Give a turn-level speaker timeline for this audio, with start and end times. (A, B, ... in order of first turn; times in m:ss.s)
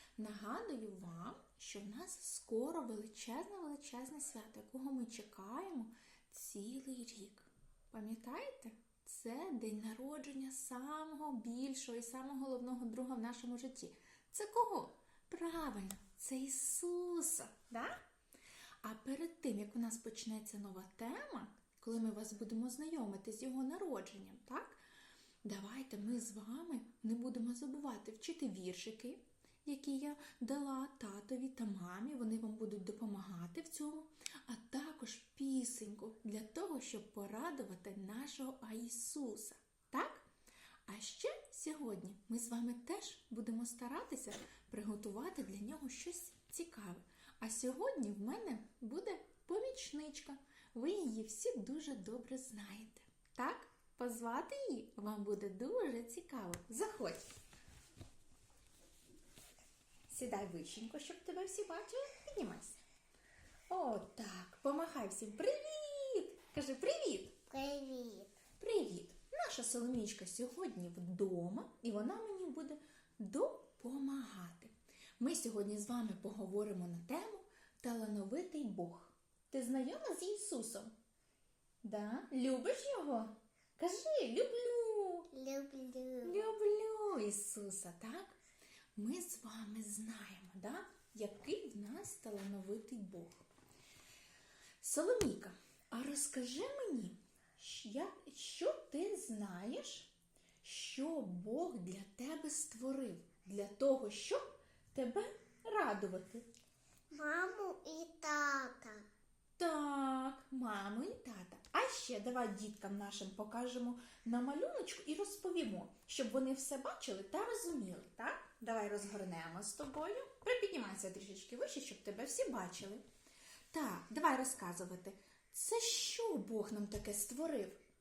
0:00.2-0:18.0 A
0:18.8-0:24.8 A
0:25.4-0:40.2 A
0:40.9-0:57.2 A
1:00.1-1:02.8 A
1:03.7-1:07.4 A
1:07.5-1:08.4 B
1:08.6-1:20.9 A
1:21.8-1:25.3 A
1:25.3-1:26.4 B
1:26.2-1:28.4 A
1:29.0-1:33.4 A
1:34.8-1:40.1 A
1:40.6-1:46.4 A
1:47.1-1:49.0 B
1:49.6-2:03.0 A
2:03.7-2:07.8 A